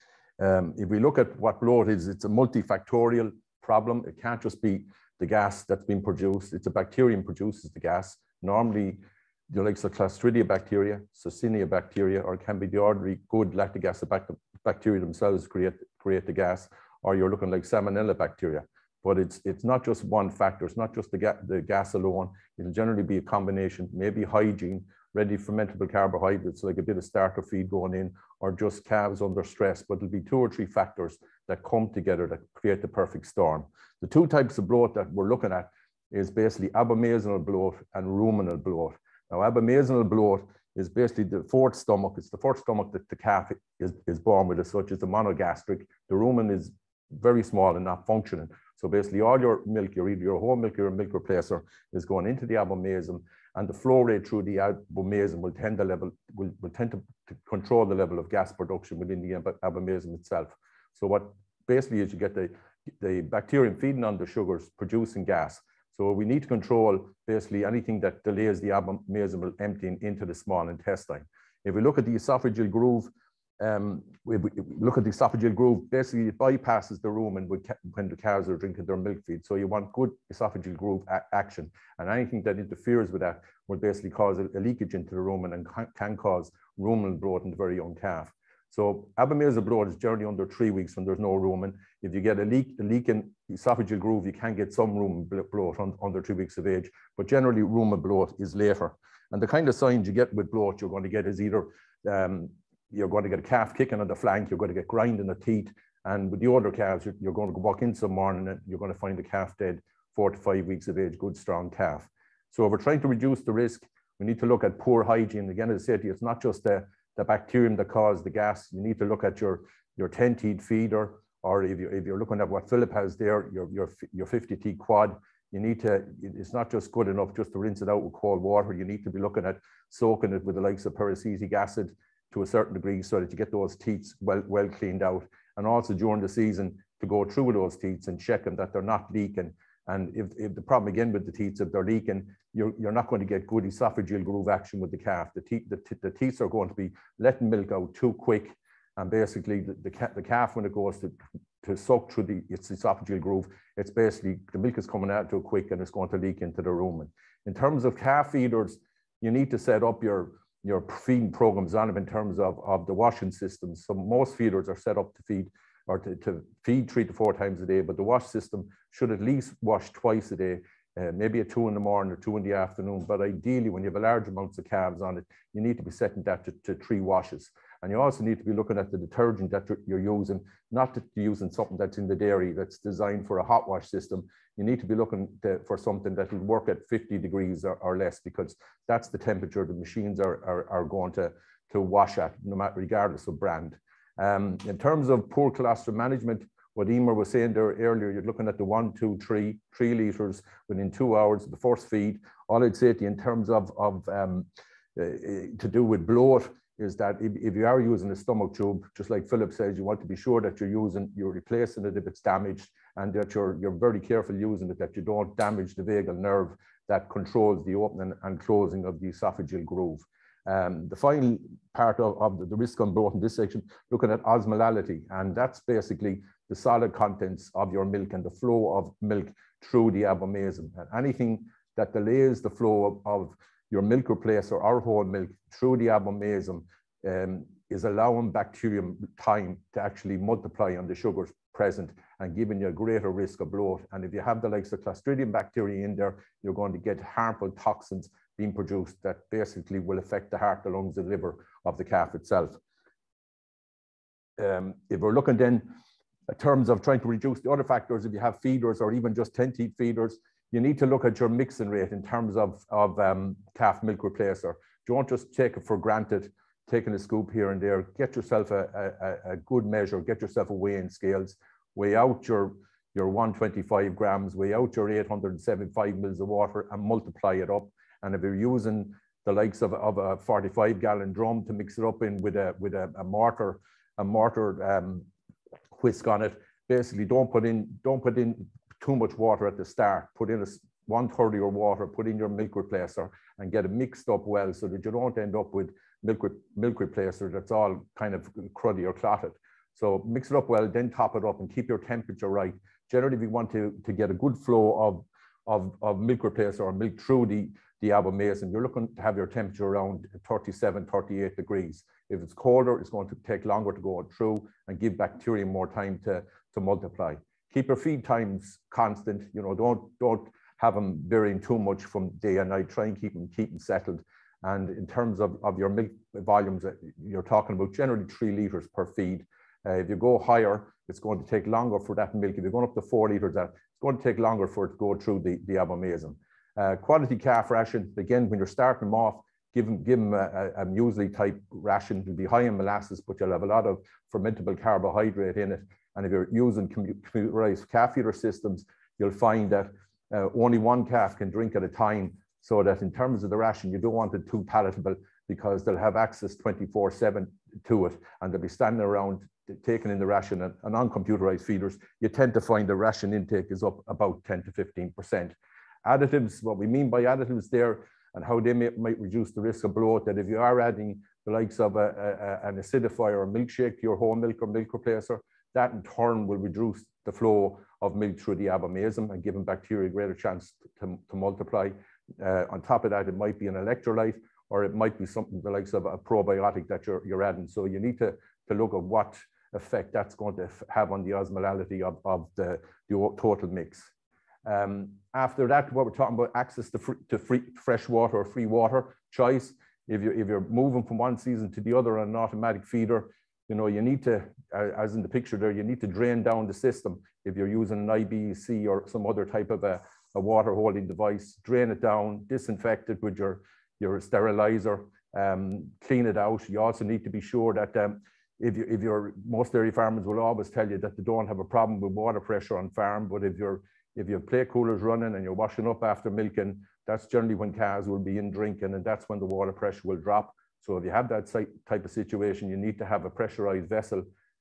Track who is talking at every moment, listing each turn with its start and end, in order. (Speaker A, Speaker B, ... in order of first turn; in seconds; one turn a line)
Speaker A: 0.4-252.6
Speaker A: 254.4-255.7
Speaker A: 256.3-285.1
Speaker A: 285.7-393.9
Speaker A: 394.4-434.1